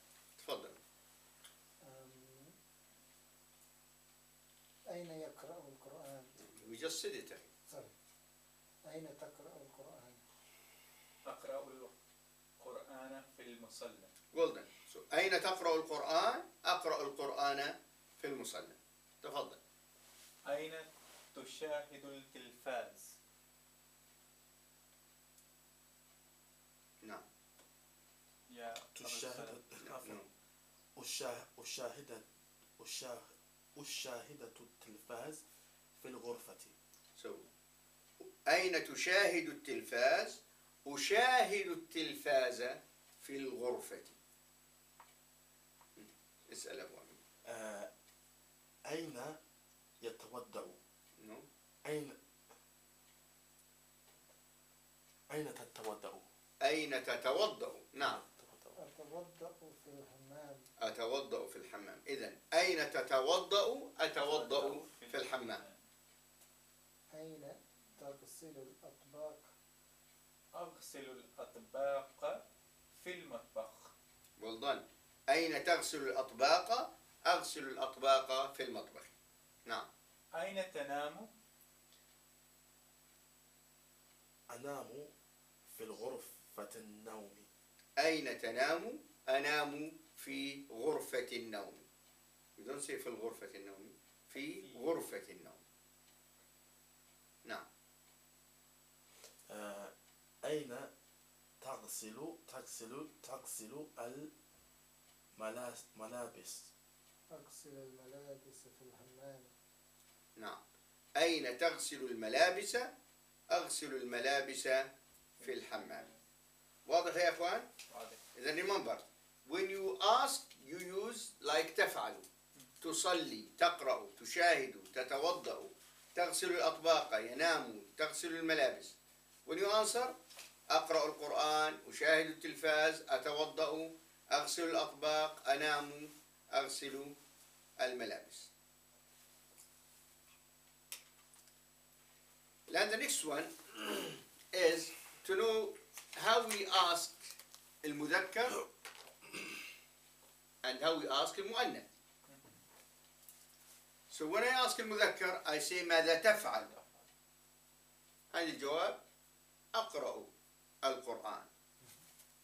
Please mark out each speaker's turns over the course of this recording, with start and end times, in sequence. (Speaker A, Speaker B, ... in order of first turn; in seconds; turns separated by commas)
Speaker A: 0.4-0.8, Speaker B: 1.8-2.5, Speaker B: 4.9-6.4, Speaker A: 6.4-7.5, Speaker B: 8.8-10.2, Speaker C: 11.2-11.9, Speaker C: 12.6-14.1, Speaker A: 14.3-19.6, Speaker C: 20.4-23.1, Speaker C: 28.5-29.6, Speaker D: 28.9-30.2, Speaker A: 29.8-30.3, Speaker D: 30.9-32.2, Speaker D: 32.8-35.4, Speaker D: 36.0-36.7, Speaker A: 37.2-37.4, Speaker A: 38.2-44.2, Speaker A: 46.0-47.2, Speaker D: 47.5-47.9, Speaker D: 48.9-49.4, Speaker D: 50.0-50.8, Speaker A: 51.2-51.5, Speaker D: 51.8-52.2, Speaker D: 55.3-56.2, Speaker A: 56.6-58.2, Speaker D: 58.0-58.8, Speaker B: 58.8-60.6, Speaker A: 60.8-65.6, Speaker C: 64.1-65.8, Speaker B: 67.1-69.4, Speaker C: 70.5-72.4, Speaker C: 73.0-73.9, Speaker A: 74.4-79.1, Speaker C: 80.3-81.3, Speaker D: 84.5-85.1, Speaker D: 85.7-87.5, Speaker A: 88.0-91.9, Speaker A: 92.6-95.6, Speaker C: 94.4-95.0, Speaker D: 99.5-100.9, Speaker D: 101.6-104.3, Speaker D: 105.4-106.7, Speaker B: 107.3-109.5, Speaker A: 111.2-112.9, Speaker A: 113.5-114.9, Speaker C: 115.4-116.2, Speaker A: 115.4-116.1, Speaker A: 116.9-117.7, Speaker C: 117.9-118.2, Speaker A: 118.4-122.2, Speaker A: 122.8-128.9, Speaker A: 129.5-130.1, Speaker A: 130.7-137.1, Speaker A: 137.8-138.5, Speaker A: 142.7-147.3, Speaker A: 147.8-148.6, Speaker A: 150.6-151.8, Speaker C: 152.3-152.6, Speaker A: 154.1-156.7, Speaker C: 156.4-157.1, Speaker A: 158.3-159.0, Speaker A: 159.7-160.3, Speaker A: 160.8-161.5